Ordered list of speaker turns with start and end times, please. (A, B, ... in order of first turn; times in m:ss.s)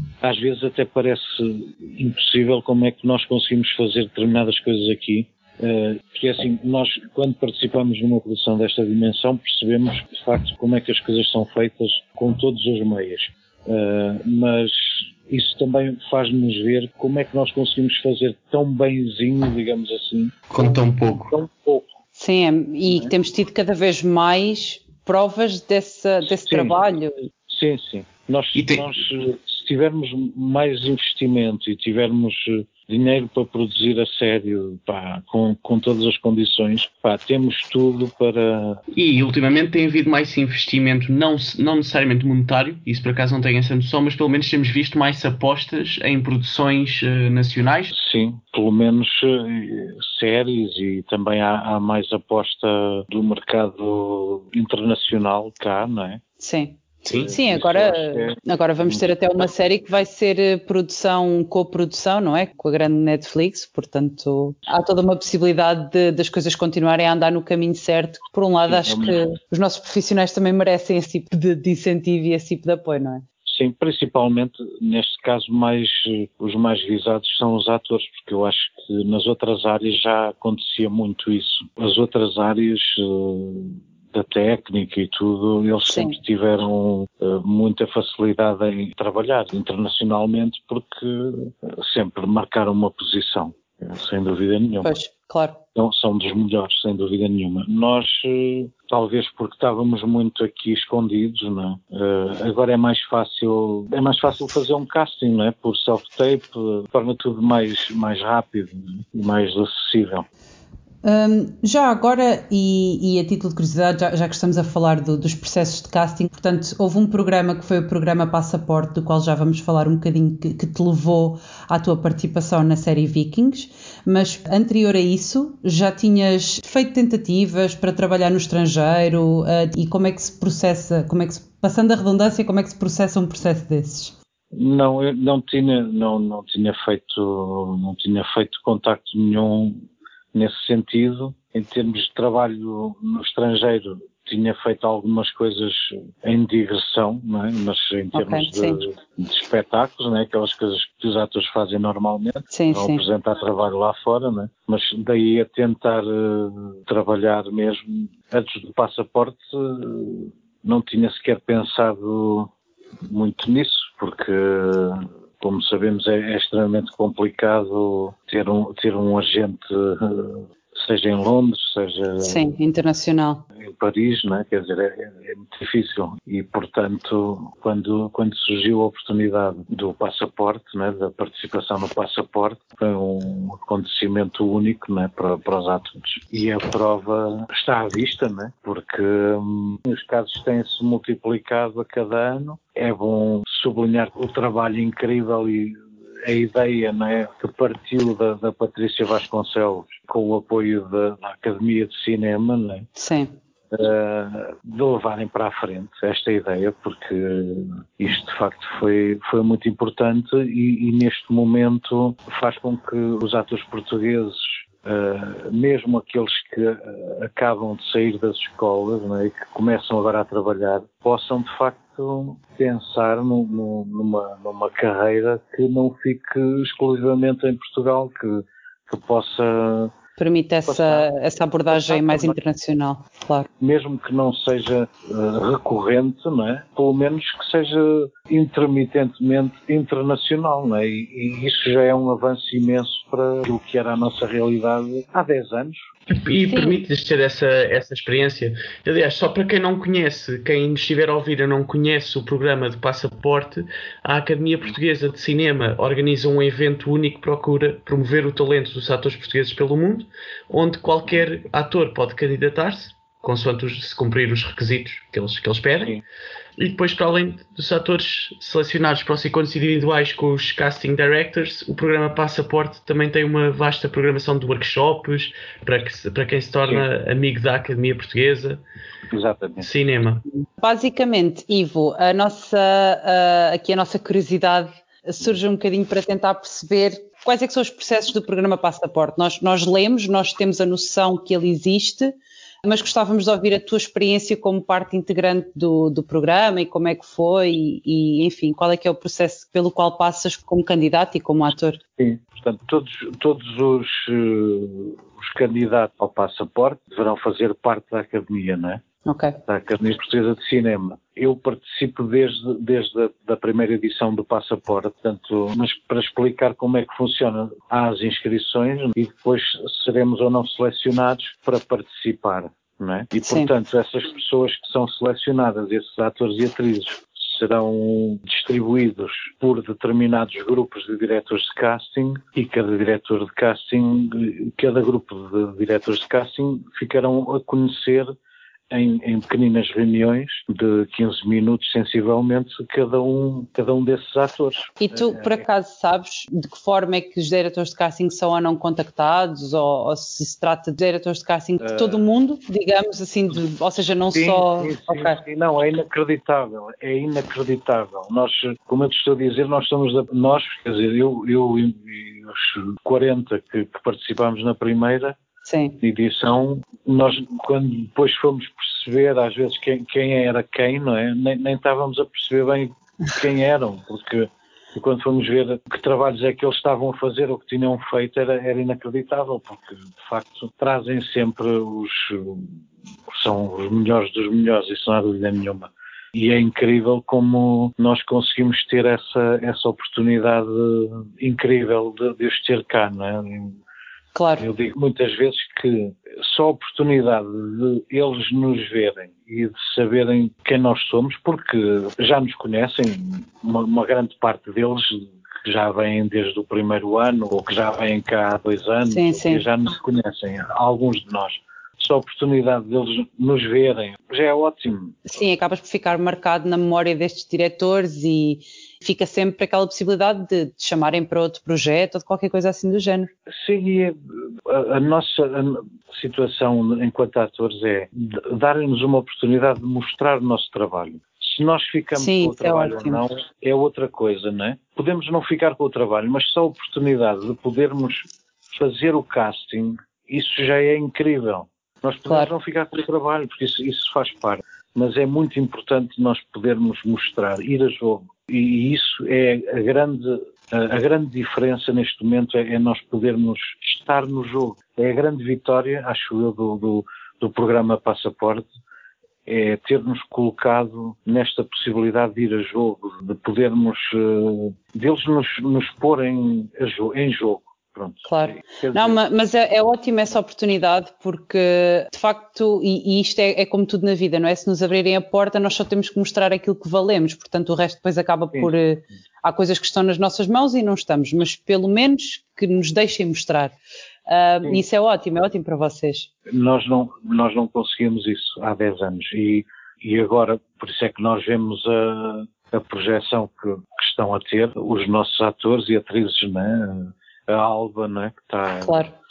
0:00.2-0:21.9 A
0:20.5-0:21.3 B
0:22.2-0:27.3 C
0:26.2-0:26.8 A
0:27.5-0:38.8 A
0:28.5-0:28.9 B
0:38.9-0:47.9 B
0:47.9-0:56.2 A
0:56.4-1:13.2 C
0:57.2-0:59.4 A
1:08.6-1:09.2 A
1:13.4-1:34.9 A
1:25.8-1:26.2 C
1:34.8-1:35.6 C
1:35.8-1:50.2 A
1:51.0-2:14.1 C
2:14.5-2:19.8 A
2:20.3-2:42.5 A
2:28.1-2:28.8 C
2:32.5-2:33.0 C
2:43.0-2:52.4 A
2:52.2-2:53.5 C
2:53.5-3:22.9 A
3:23.0-3:23.3 C
3:23.7-3:49.9 A
3:50.2-3:53.5 C
3:50.6-3:51.1 A
3:51.7-3:52.4 A
3:53.6-4:05.8 A
4:06.1-4:26.0 B
4:06.4-4:06.8 C
4:26.6-4:38.6 B
4:39.1-4:39.7 A
4:39.6-4:40.2 B
4:40.6-5:01.8 C
5:02.0-5:08.8 A
5:09.0-5:09.4 C
5:09.5-5:38.1 A
5:23.2-5:23.5 C
5:38.7-5:45.4 A
5:44.8-5:55.2 C
5:51.6-5:52.0 A
5:54.1-6:05.2 A
6:05.4-6:05.8 C
6:05.8-6:33.6 A
6:34.1-6:34.4 C
6:34.4-6:55.0 A
6:48.8-6:49.4 C
6:55.0-7:03.1 C
7:03.3-7:38.5 A
7:12.0-7:13.0 C
7:39.2-7:49.0 A
7:48.0-8:06.1 C
8:06.3-8:18.7 A
8:18.6-8:18.9 C